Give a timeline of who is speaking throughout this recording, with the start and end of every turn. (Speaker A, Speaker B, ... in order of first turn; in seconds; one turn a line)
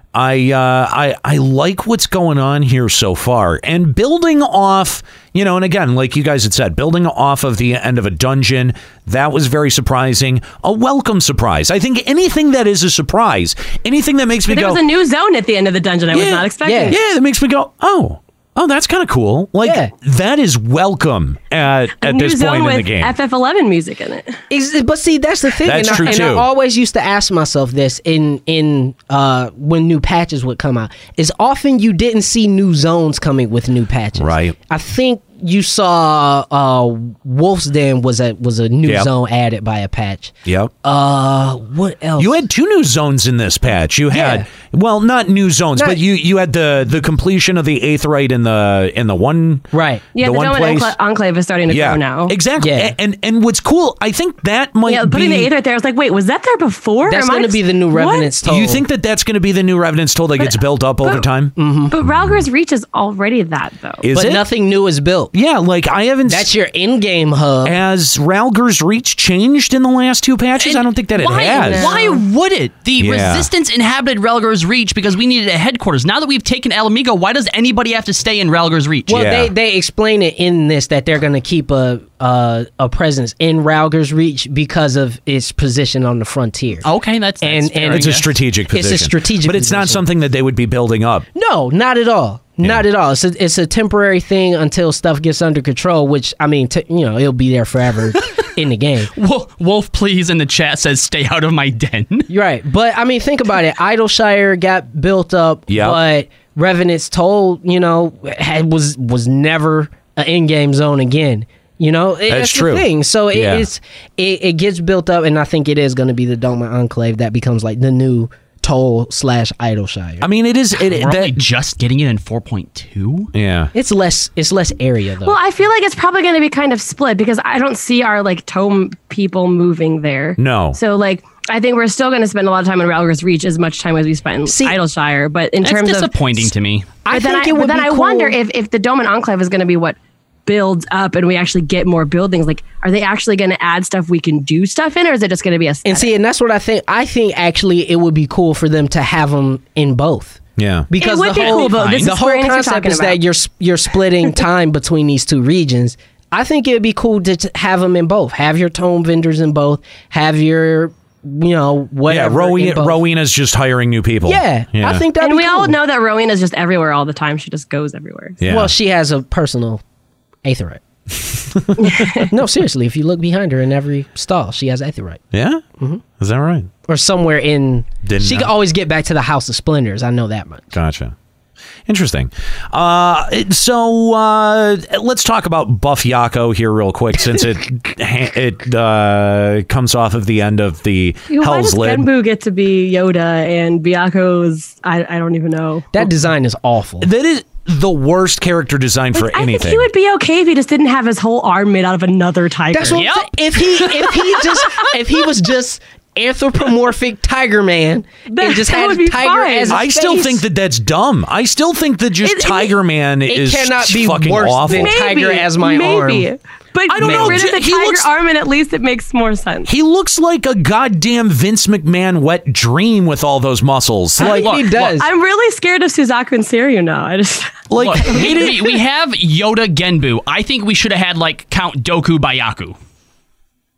Speaker A: 0.1-14.8
Speaker B: 14.5-17.0
Speaker A: 16.1-23.1
Speaker C: 16.6-17.0
Speaker C: 19.6-19.9
Speaker B: 22.0-24.4
Speaker C: 24.5-40.3
Speaker A: 25.6-26.5
Speaker A: 34.2-34.5
Speaker A: 40.5-40.7
Speaker C: 40.8-42.4
Speaker A: 42.2-50.9
Speaker C: 44.1-44.5
Speaker C: 45.8-46.0
Speaker C: 49.7-50.1
Speaker B: 50.1-52.4
Speaker A: 51.7-55.5
Speaker C: 52.6-53.0
Speaker B: 54.9-58.3
Speaker C: 57.1-58.8
Speaker A: 58.4-61.5
Speaker B: 60.4-61.3
Speaker C: 61.6-62.0
Speaker B: 61.9-64.0
Speaker A: 62.1-62.5
Speaker A: 64.0-64.4
Speaker C: 64.1-65.3
Speaker A: 65.3-66.5
Speaker C: 66.3-67.8
Speaker A: 67.6-71.9
Speaker D: 70.6-79.2
Speaker B: 71.3-72.2
Speaker A: 73.0-73.5
Speaker C: 79.1-86.9
Speaker A: 79.1-79.5
Speaker D: 86.8-88.3
Speaker C: 87.4-90.0
Speaker A: 87.9-91.2
Speaker C: 91.3-99.1
Speaker D: 99.2-102.3
Speaker C: 102.3-120.3
Speaker A: 105.7-106.0
Speaker A: 112.3-113.7
Speaker A: 120.2-121.4
Speaker D: 120.8-123.3
Speaker A: 123.3-123.7
Speaker C: 123.7-125.4
Speaker B: 125.2-136.1
Speaker A: 130.4-130.8
Speaker C: 134.5-134.8
Speaker D: 135.6-136.9
Speaker C: 137.1-138.4
Speaker B: 137.1-146.1
Speaker C: 145.8-163.0
Speaker A: 150.6-150.9
Speaker B: 151.0-153.2
Speaker D: 151.3-152.1
Speaker A: 162.1-165.1
Speaker C: 164.3-165.8
Speaker B: 165.2-168.4
Speaker A: 168.4-168.7
Speaker C: 168.5-169.8
Speaker C: 170.4-170.8
Speaker A: 171.6-172.0
Speaker B: 171.8-172.3
Speaker C: 172.3-175.2
Speaker A: 175.3-175.6
Speaker A: 176.2-176.7
Speaker C: 176.9-180.7
Speaker A: 178.0-178.5
Speaker A: 180.7-181.1
Speaker A: 181.9-192.1
Speaker B: 191.3-195.9
Speaker C: 195.9-197.1
Speaker A: 197.0-199.9
Speaker B: 199.2-203.1
Speaker C: 202.7-210.4
Speaker D: 203.0-203.3
Speaker B: 203.8-204.9
Speaker B: 208.3-210.1
Speaker A: 209.7-215.0
Speaker B: 212.2-212.7
Speaker C: 213.3-216.3
Speaker B: 214.7-219.7
Speaker A: 216.9-218.1
Speaker C: 217.0-217.5
Speaker A: 219.7-224.4
Speaker C: 224.2-225.1
Speaker D: 224.2-224.9
Speaker B: 224.9-227.6
Speaker A: 227.7-228.7
Speaker D: 227.7-232.8